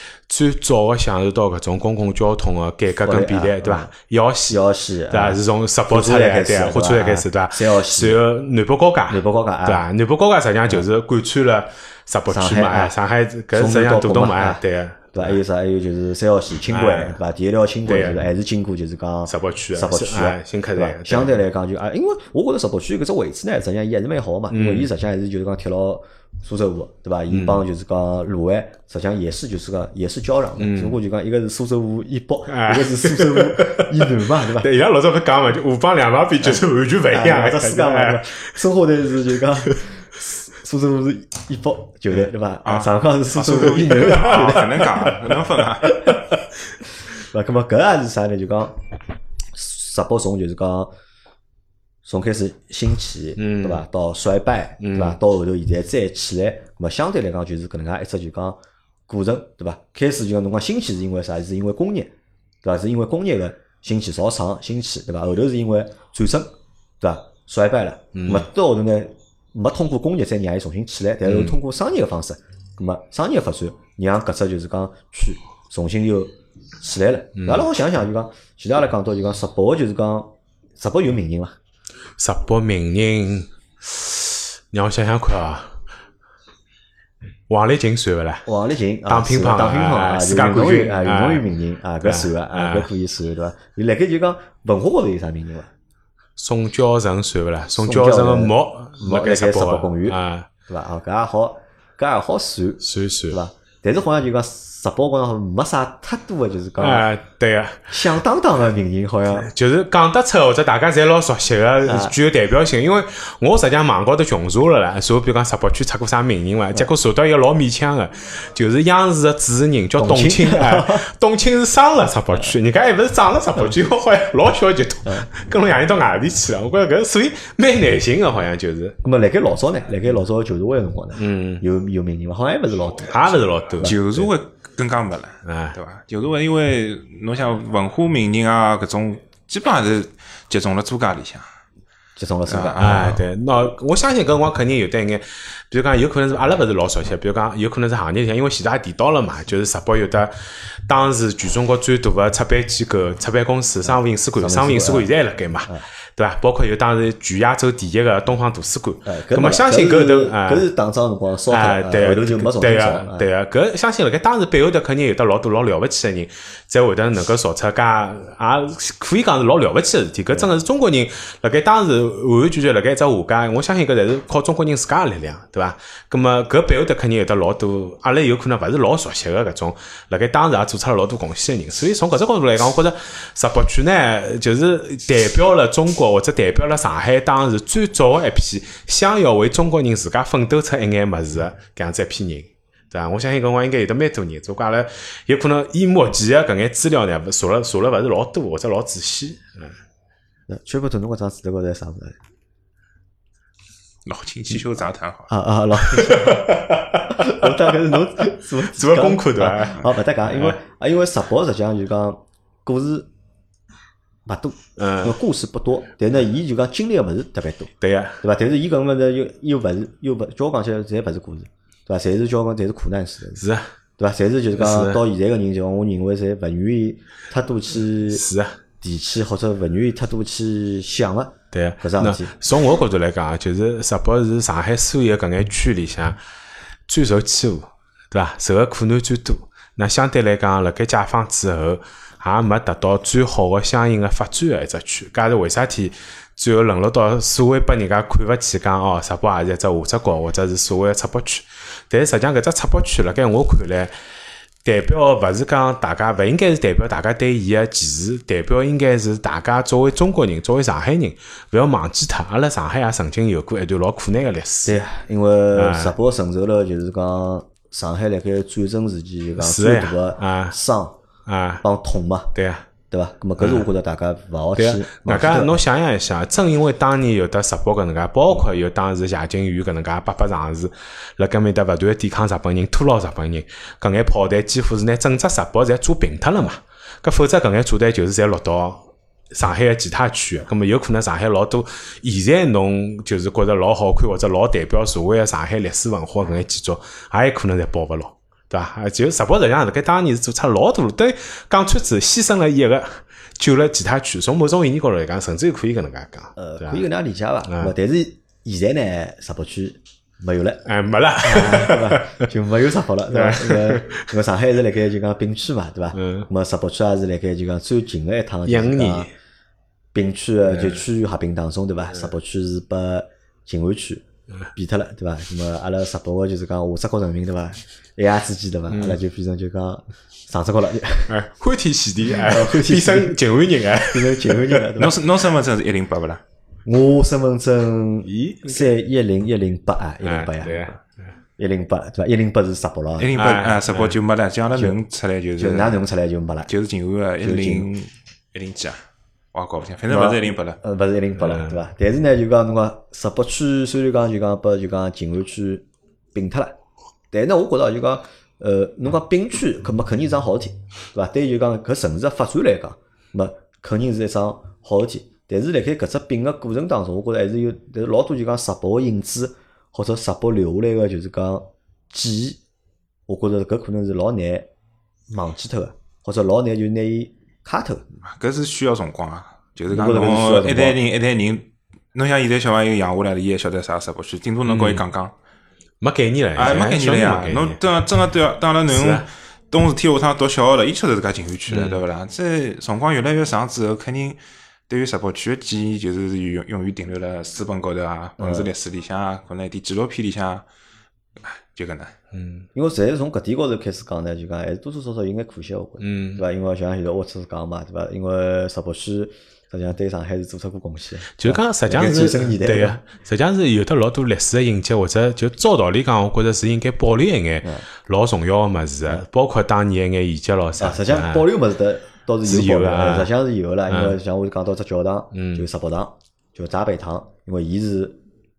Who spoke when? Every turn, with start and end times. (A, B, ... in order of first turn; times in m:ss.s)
0:00.3-0:15.4 A
0:03.0-0:03.9 B
0:04.5-0:08.2 B
0:09.1-0:09.9 B
0:12.3-0:13.0 B
0:13.5-0:34.7 B
0:16.7-0:17.2 A
0:17.9-0:18.2 A
0:19.3-0:21.4 A
0:24.5-0:24.9 A
0:27.3-0:27.6 A
0:30.6-0:31.0 A
0:32.5-0:38.5 A
0:37.1-0:45.2 B
0:42.6-0:46.0 C
0:44.1-0:45.1 A
0:45.9-0:46.2 B
0:47.2-0:48.8 B
0:49.5-0:50.9 B
0:52.0-1:21.6 B
0:53.4-0:53.8 A
0:54.8-0:55.2 A
1:08.1-1:08.5 A
1:11.3-1:11.6 A
1:17.4-1:17.6 A
1:22.2-1:25.8 A
1:27.5-1:28.5 A
1:28.5-1:35.7 B
1:29.1-1:31.4 A
1:32.0-1:32.9 A
1:36.4-1:40.5 A
1:37.8-1:47.1 B
1:42.8-1:43.4 A
1:46.8-1:47.9 A
1:47.9-1:49.5 B
1:49.4-2:09.0 A
1:51.8-1:52.2 B
2:00.0-2:01.1 B
2:09.0-2:14.3 B
2:11.2-2:11.6 A
2:13.1-2:14.0 A
2:13.8-2:21.5 C
2:15.4-2:15.8 A
2:22.2-2:23.2 B
2:22.5-2:23.2 C
2:22.8-2:30.3 A
2:30.9-2:40.7 A
2:34.4-2:35.1 B
2:39.1-2:43.3 B
2:41.5-3:19.8 A
3:20.5-3:22.2 B
3:24.1-3:25.3 C
3:25.3-3:33.1 B
3:25.9-3:30.6 A
3:34.3-3:43.4 B
3:34.8-3:35.2 A
3:37.8-3:38.2 A
3:43.4-3:43.7 A
3:44.0-3:48.2 B
3:44.6-3:45.0 A
3:48.1-3:48.6 A
3:48.8-3:52.3 B
3:51.5-3:56.2 A
3:56.9-4:13.9 A
4:14.6-4:24.8 A
4:24.7-4:31.0 B
4:25.5-4:26.0 A
4:29.4-4:30.6 A
4:31.3-4:31.6 A
4:31.6-4:32.3 B
4:32.4-4:32.7 A
4:32.9-4:35.6 B
4:33.4-4:33.7 A
4:34.6-5:06.9 A
5:06.4-5:10.6 B
5:07.5-5:07.7 A
5:10.7-5:12.3 A
5:11.2-5:19.1 B
5:13.1-5:14.1 A
5:15.9-5:16.3 A
5:18.5-5:19.1 A
5:19.9-5:24.0 B
5:20.5-5:20.8 A
5:24.6-5:31.1 B
5:28.7-5:29.0 A
5:31.1-5:34.6 A
5:32.1-5:33.2 B
5:33.8-5:35.0 B
5:34.8-5:36.2 C
5:36.6-5:40.8 B
5:38.0-5:38.7 A
5:40.0-5:40.8 A
5:41.4-5:43.2 B
5:43.0-5:45.7 C
5:43.2-5:44.0 A
5:45.4-5:46.5 B
5:46.5-5:48.8 C
5:47.2-5:47.7 B
5:49.3-5:50.6 C
5:49.9-5:56.6 B
5:51.2-5:51.6 A
5:57.1-6:12.4 B
6:13.1-6:14.5 B
6:15.1-6:17.8 B
6:18.0-6:25.1 C
6:19.7-6:20.8 B
6:24.4-6:24.8 A
6:25.8-6:27.6 A
6:26.4-6:40.5 C
6:28.7-6:29.1 A
6:31.5-6:31.8 A
6:38.2-6:38.5 B
6:41.2-6:41.9 C
6:42.1-6:42.5 A
6:42.5-6:52.8 B
6:45.8-6:46.2 A
6:51.2-7:01.3 A
7:00.6-7:08.0 B
7:02.2-7:03.1 A
7:03.7-7:04.0 A
7:05.1-7:05.5 A